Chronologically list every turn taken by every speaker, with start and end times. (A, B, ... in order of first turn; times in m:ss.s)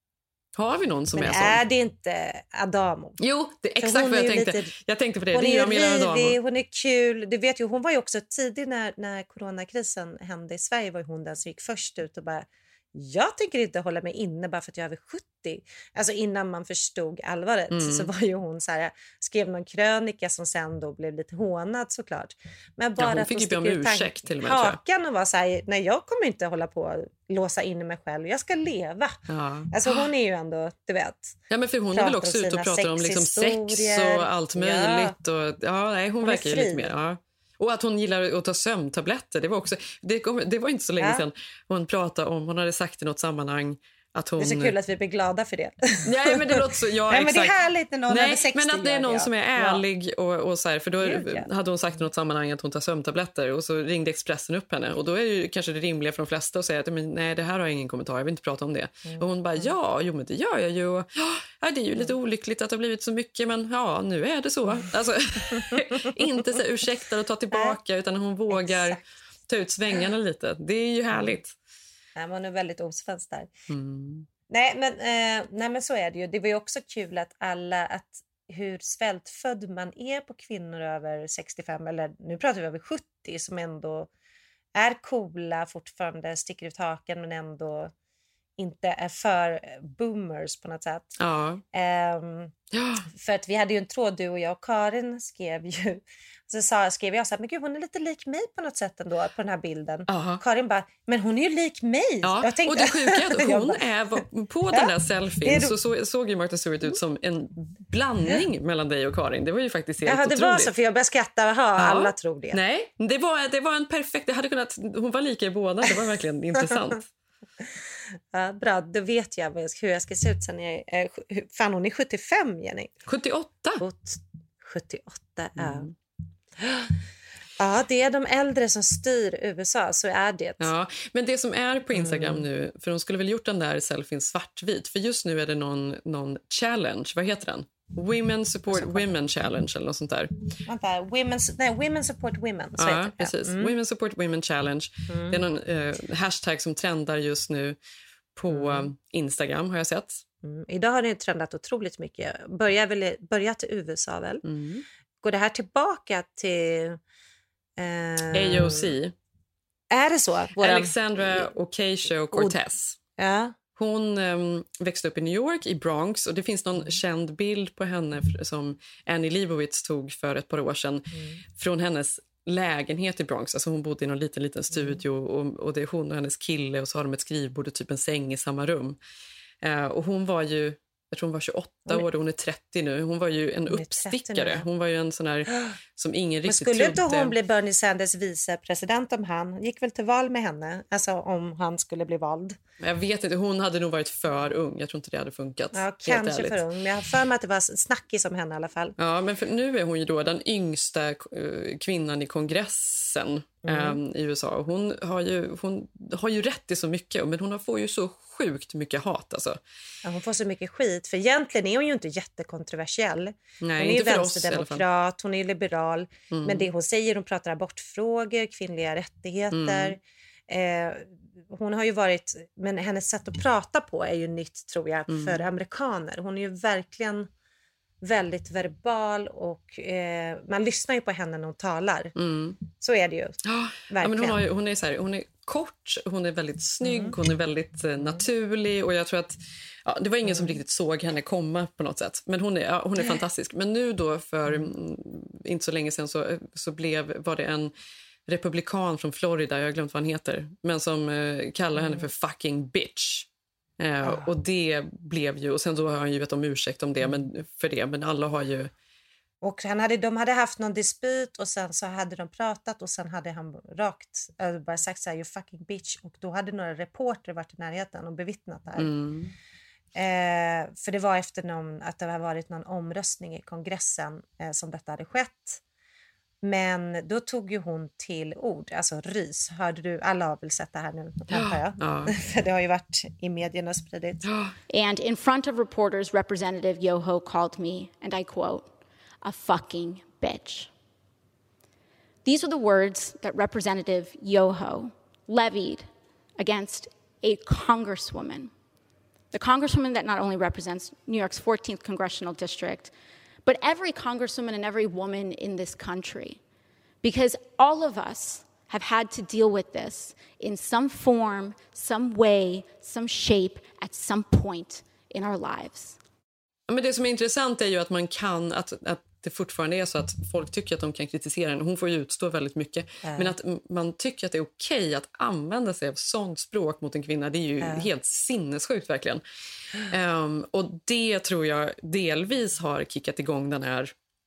0:00.6-0:01.6 A
0:01.2-0:03.2 B
0:03.2-0:06.4 A
0:03.8-0:04.7 B
0:05.3-0:29.2 B
0:17.7-0:18.1 A
0:23.0-0:24.8 A
0:29.3-0:29.7 A
0:29.7-0:31.4 B
0:31.5-0:44.7 A
0:31.9-0:35.1 B
0:36.2-0:36.9 B
0:44.4-0:49.8 B
0:46.0-0:47.6 A
0:48.1-1:11.5 A
0:51.0-0:51.5 B
0:59.0-0:59.7 B
1:08.5-1:09.0 B
1:12.2-1:13.5 B
1:13.7-1:14.3 A
1:14.5-1:24.1 B
1:24.7-1:27.9 B
1:28.6-1:31.1 B
1:31.2-1:31.6 A
1:31.7-1:32.5 B
1:32.7-1:33.1 A
1:33.1-1:43.8 B
1:40.1-1:40.4 A
1:42.2-1:50.7 A
1:45.4-1:45.7 B
1:50.0-1:52.6 B
1:51.8-1:57.1 A
1:58.3-2:02.9 B
2:03.0-2:03.8 A
2:03.8-2:05.9 B
2:05.6-2:05.9 A
2:06.6-2:06.9 B
2:07.6-2:10.7 B
2:10.6-2:20.3 A
2:11.9-2:12.4 B
2:18.7-2:19.1 B
2:20.7-2:23.7 B
2:22.8-2:27.8 A
2:25.1-2:25.4 B
2:28.3-2:30.2 A
2:28.5-2:28.9 B
2:30.4-2:34.4 B
2:34.4-2:34.8 A
2:35.2-2:37.0 B
2:37.8-2:38.9 B
2:38.3-2:39.1 A
2:39.9-2:41.5 B
2:40.6-2:43.0 A
2:42.3-2:42.6 B
2:43.2-2:43.5 B
2:43.8-2:59.0 A
2:51.1-2:51.4 B
2:54.7-2:55.0 B
2:59.6-3:07.3 A
3:03.7-3:04.6 B
3:05.5-3:05.7 B
3:06.5-3:12.6 B
3:12.8-3:16.6 A
3:15.7-3:18.9 B
3:19.0-3:29.6 A
3:23.6-3:24.0 B
3:30.0-3:40.0 B
3:33.6-3:34.8 A
3:36.3-3:36.6 A
3:39.5-3:40.0 A
3:40.5-3:47.3 B
3:45.1-3:45.4 A
3:48.0-3:52.1 B
3:52.2-3:52.6 A
3:52.8-3:54.4 B
3:53.4-4:07.7 A
3:56.8-3:57.2 B
4:00.2-4:00.6 B
4:08.3-4:13.3 A
4:11.7-4:12.1 B
4:13.8-4:18.7 A
4:14.0-4:14.3 B
4:19.4-4:28.9 B
4:28.8-4:29.3 A
4:29.9-4:35.6 B
4:36.4-4:44.2 B
4:41.3-4:42.1 A
4:44.2-4:44.5 A
4:44.7-4:48.7 C
4:49.2-4:50.7 C
4:52.2-4:58.5 C
4:59.3-5:02.9 C
5:03.4-5:06.4 C
5:07.0-5:16.0 C
5:16.7-5:29.2 A
5:23.0-5:23.3 B
5:27.6-5:27.9 B
5:29.8-5:33.9 A